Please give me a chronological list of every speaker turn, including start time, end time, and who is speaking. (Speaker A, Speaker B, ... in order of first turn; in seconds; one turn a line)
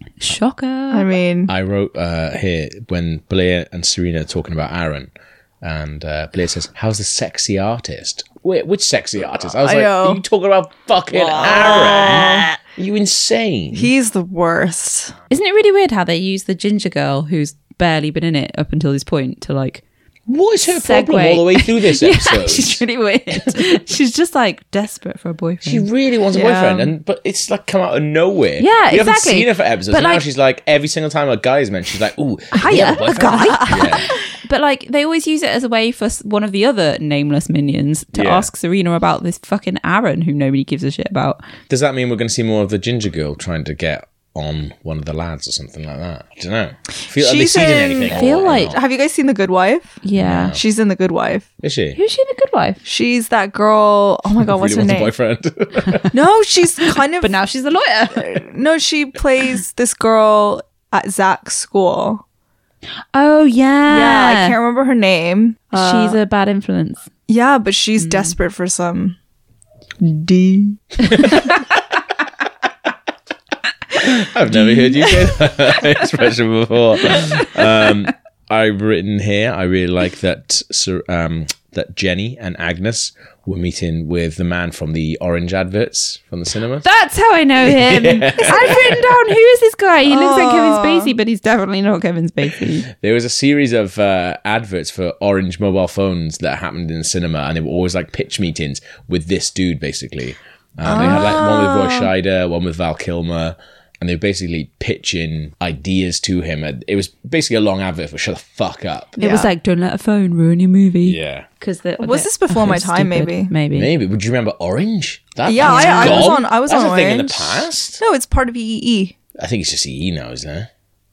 Speaker A: 0.2-1.1
Speaker B: 0.9-1.5
Speaker C: 1.5-13.9
Speaker B: 9.6-10.2
Speaker B: 11.1-12.5
Speaker B: 13.7-15.1
Speaker A: 15.3-19.8
Speaker C: 20.3-23.6
Speaker A: 20.6-25.9
Speaker C: 25.6-34.1
Speaker B: 26.3-26.9
Speaker A: 28.6-30.2
Speaker B: 32.5-34.1
Speaker A: 32.6-41.4
Speaker C: 38.1-38.5
Speaker C: 41.7-48.8
Speaker B: 47.1-50.0
Speaker A: 48.1-48.8
Speaker A: 50.0-50.6
Speaker C: 50.2-50.6
Speaker B: 50.5-51.5
Speaker C: 51.6-52.0
Speaker A: 51.9-52.8
Speaker B: 52.8-55.1
Speaker C: 54.4-56.1
Speaker B: 56.1-57.3
Speaker A: 57.2-58.4
Speaker B: 58.1-62.2
Speaker A: 63.1-64.5
Speaker B: 63.9-66.2
Speaker A: 65.7-67.1
Speaker B: 67.3-69.2
Speaker A: 68.0-68.3
Speaker B: 70.0-71.6
Speaker C: 73.9-86.9
Speaker A: 74.6-75.1
Speaker A: 77.1-77.5
Speaker A: 86.8-92.9
Speaker C: 87.6-89.2
Speaker B: 88.3-88.9
Speaker B: 90.0-91.1
Speaker C: 92.9-109.2
Speaker B: 100.8-102.1
Speaker A: 109.2-113.9
Speaker B: 109.2-109.5
Speaker C: 111.0-111.5
Speaker B: 112.0-113.5
Speaker C: 113.7-118.0
Speaker B: 115.4-119.1
Speaker A: 115.6-116.4
Speaker C: 119.3-120.7